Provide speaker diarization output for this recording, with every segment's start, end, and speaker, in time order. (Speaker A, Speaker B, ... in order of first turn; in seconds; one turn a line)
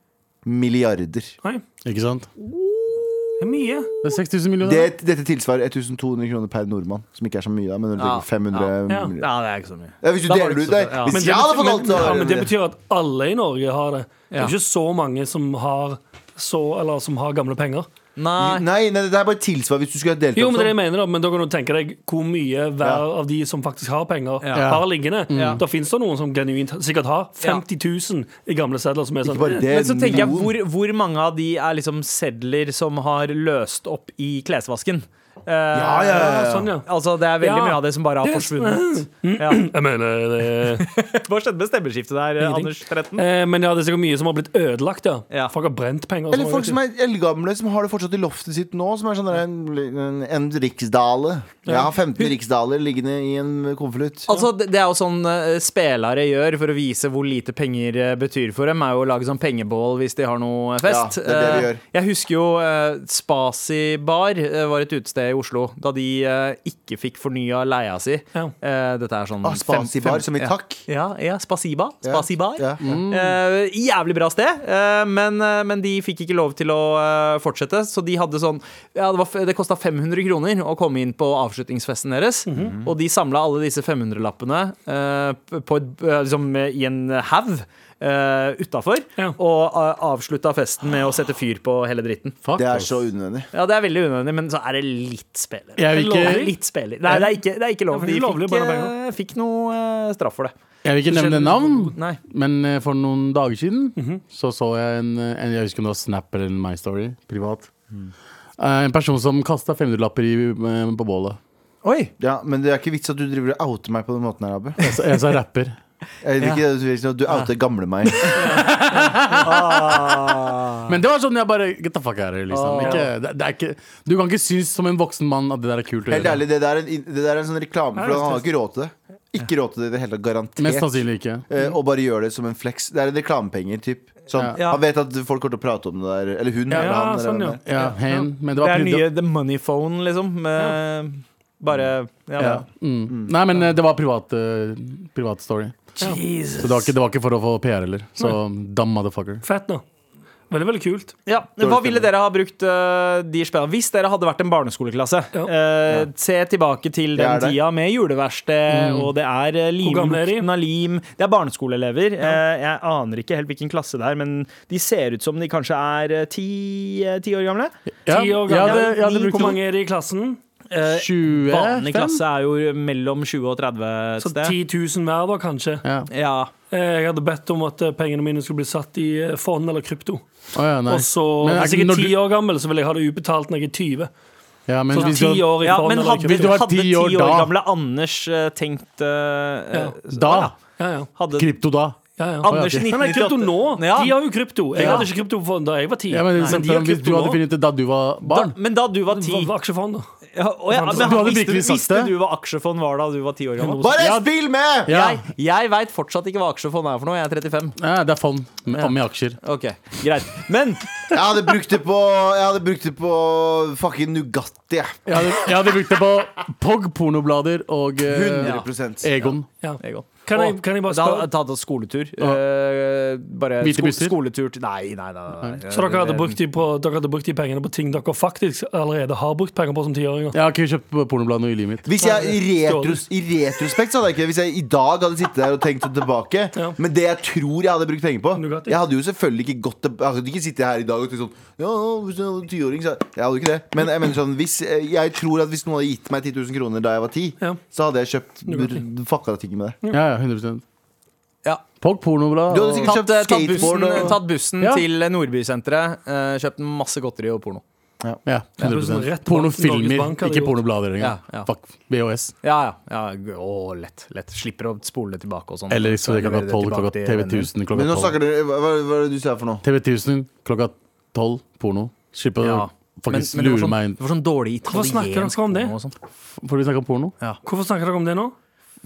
Speaker A: 0.4-1.3
Speaker B: 1.8-2.3
Speaker C: 2.4-4.2
Speaker D: 3.4-3.9
Speaker B: 4.0-4.9
Speaker A: 4.6-9.3
Speaker C: 8.0-11.2
Speaker D: 8.9-9.1
Speaker A: 10.0-12.5
Speaker D: 11.1-17.9
Speaker C: 18.2-18.6
Speaker A: 18.4-20.7
Speaker D: 20.3-29.7
Speaker C: 24.4-24.8
Speaker B: 24.5-25.6
Speaker C: 25.3-25.6
Speaker A: 29.2-30.6
Speaker C: 29.7-39.7
Speaker A: 35.7-36.7
Speaker D: 36.1-36.9
Speaker D: 37.4-40.9
Speaker C: 40.7-43.2
Speaker D: 42.4-46.8
Speaker A: 46.3-54.4
Speaker D: 51.7-51.9
Speaker C: 54.3-92.3
Speaker A: 60.8-61.8
Speaker A: 69.4-70.8
Speaker A: 72.0-72.8
Speaker B: 72.8-73.4
Speaker D: 82.5-82.8
Speaker A: 82.5-82.9
Speaker B: 92.4-92.9
Speaker A: 92.6-93.5
Speaker C: 93.5-100.5
Speaker B: 95.8-96.5
Speaker D: 95.9-97.4
Speaker D: 97.9-98.9
Speaker B: 100.8-107.7
Speaker D: 101.1-101.9
Speaker C: 101.9-102.2
Speaker D: 104.0-104.2
Speaker B: 108.6-111.4
Speaker C: 111.8-112.1
Speaker A: 112.2-114.8
Speaker B: 114.8-115.8
Speaker A: 116.2-118.6
Speaker D: 118.4-118.6
Speaker B: 118.6-120.3
Speaker C: 119.3-120.9
Speaker B: 120.9-126.4
Speaker C: 122.5-123.0
Speaker A: 126.1-137.6
Speaker D: 128.0-128.5
Speaker B: 130.6-131.4
Speaker C: 134.5-134.8
Speaker D: 136.7-138.3
Speaker B: 137.6-139.1
Speaker C: 138.6-142.6
Speaker B: 142.4-146.0
Speaker A: 143.1-143.3
Speaker C: 146.0-146.9
Speaker B: 146.6-149.4
Speaker D: 149.4-149.8
Speaker D: 150.5-151.1
Speaker C: 151.2-167.7
Speaker A: 151.6-152.1
Speaker A: 157.1-157.6
Speaker B: 158.7-159.1
Speaker D: 159.8-160.5
Speaker B: 168.1-169.6
Speaker D: 168.1-170.4
Speaker C: 168.6-169.4
Speaker C: 170.7-174.5
Speaker B: 170.9-172.2
Speaker D: 174.2-175.8
Speaker B: 175.8-176.1
Speaker C: 176.1-176.5
Speaker D: 176.7-180.2
Speaker B: 180.5-182.2
Speaker D: 180.8-184.1
Speaker B: 184.7-187.6
Speaker D: 184.9-186.6
Speaker C: 184.9-190.5
Speaker D: 189.7-190.0
Speaker B: 190.1-190.5
Speaker D: 190.8-191.1
Speaker C: 191.2-191.5
Speaker B: 191.3-192.9
Speaker D: 192.2-197.4
Speaker C: 192.4-194.2
Speaker C: 194.7-195.1
Speaker B: 194.8-195.1
Speaker B: 196.1-198.6
Speaker C: 198.2-199.5
Speaker D: 199.1-200.1
Speaker C: 200.3-203.9
Speaker D: 200.7-201.3
Speaker B: 200.9-202.1
Speaker D: 203.6-204.0
Speaker A: 203.8-204.9
Speaker B: 204.8-205.2
Speaker C: 204.9-207.8
Speaker B: 207.8-209.4
Speaker C: 208.7-210.9
Speaker A: 211.1-215.2
Speaker B: 215.1-219.5
Speaker A: 218.0-219.1
Speaker C: 219.2-226.4
Speaker D: 219.6-221.3
Speaker B: 223.6-224.1
Speaker D: 225.7-230.4
Speaker B: 230.3-231.8
Speaker A: 231.8-249.8
Speaker D: 232.0-233.0
Speaker D: 238.3-238.8
Speaker D: 248.5-248.8
Speaker B: 249.9-250.6
Speaker B: 251.8-253.0
Speaker A: 252.5-254.2
Speaker C: 252.8-257.6
Speaker B: 254.6-254.8
Speaker B: 258.2-262.3
Speaker D: 258.6-260.6
Speaker C: 261.0-261.5
Speaker C: 262.4-267.5
Speaker B: 265.7-268.1
Speaker A: 267.7-269.6
Speaker B: 269.6-274.0
Speaker C: 272.4-275.9
Speaker D: 274.7-275.7
Speaker B: 276.4-277.1
Speaker D: 277.4-278.3